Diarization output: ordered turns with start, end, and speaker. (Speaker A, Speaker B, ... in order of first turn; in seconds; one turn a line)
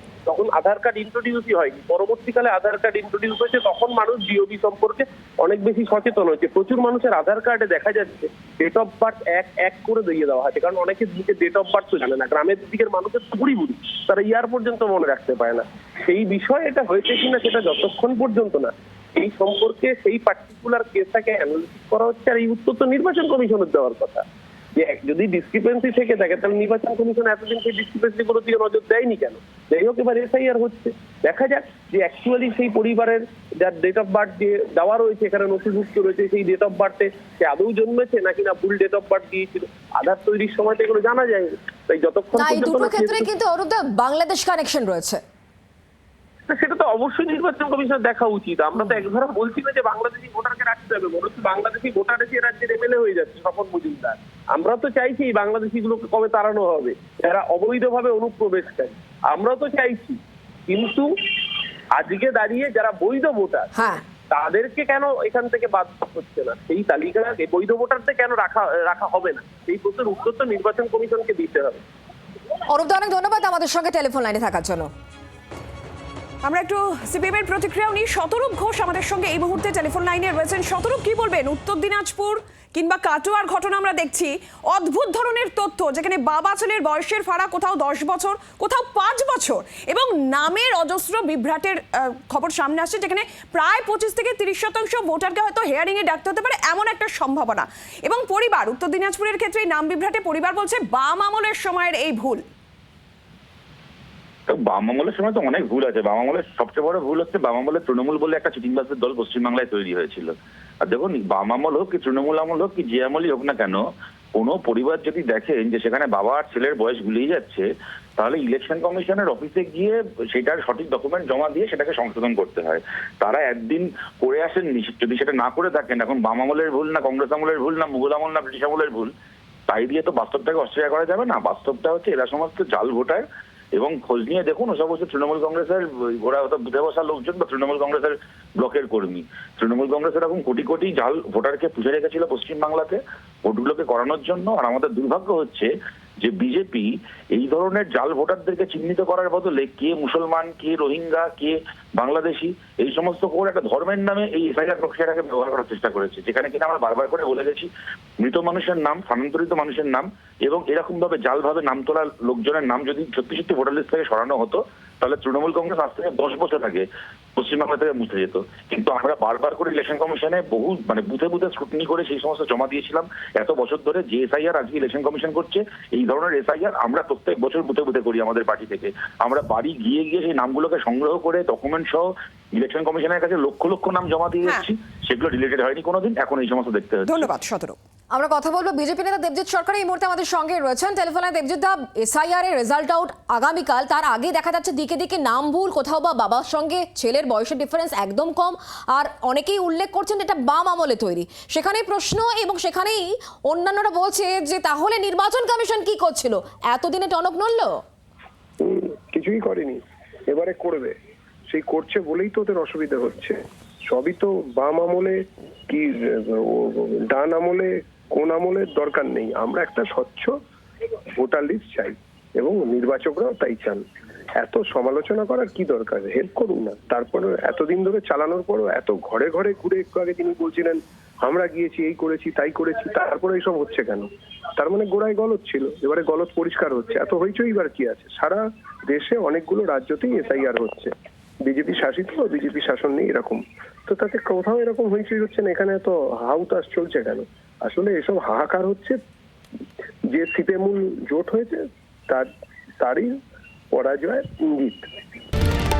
Speaker A: 0.3-24.2
Speaker A: 24.8-43.3
Speaker B: 42.4-45.2
Speaker A: 46.5-63.7
Speaker B: 63.8-64.0
Speaker A: 64.3-71.8
Speaker B: 72.7-74.9
Speaker C: 76.4-102.4
Speaker D: 104.5-113.8
Speaker D: 114.3-117.7
Speaker D: 118.2-129.1
Speaker D: 129.7-133.2
Speaker D: 133.8-145.7
Speaker D: 146.2-157.7
Speaker D: 158.2-187.3
Speaker C: 187.1-187.8
Speaker B: 188.1-207.8
Speaker E: 208.6-210.9
Speaker E: 211.5-220.3
Speaker E: 221.2-223.8
Speaker E: 224.4-234.1
Speaker E: 234.6-240.9
Speaker E: 241.5-249.0
Speaker E: 250.1-252.3
Speaker E: 252.8-253.1
Speaker E: 253.7-254.8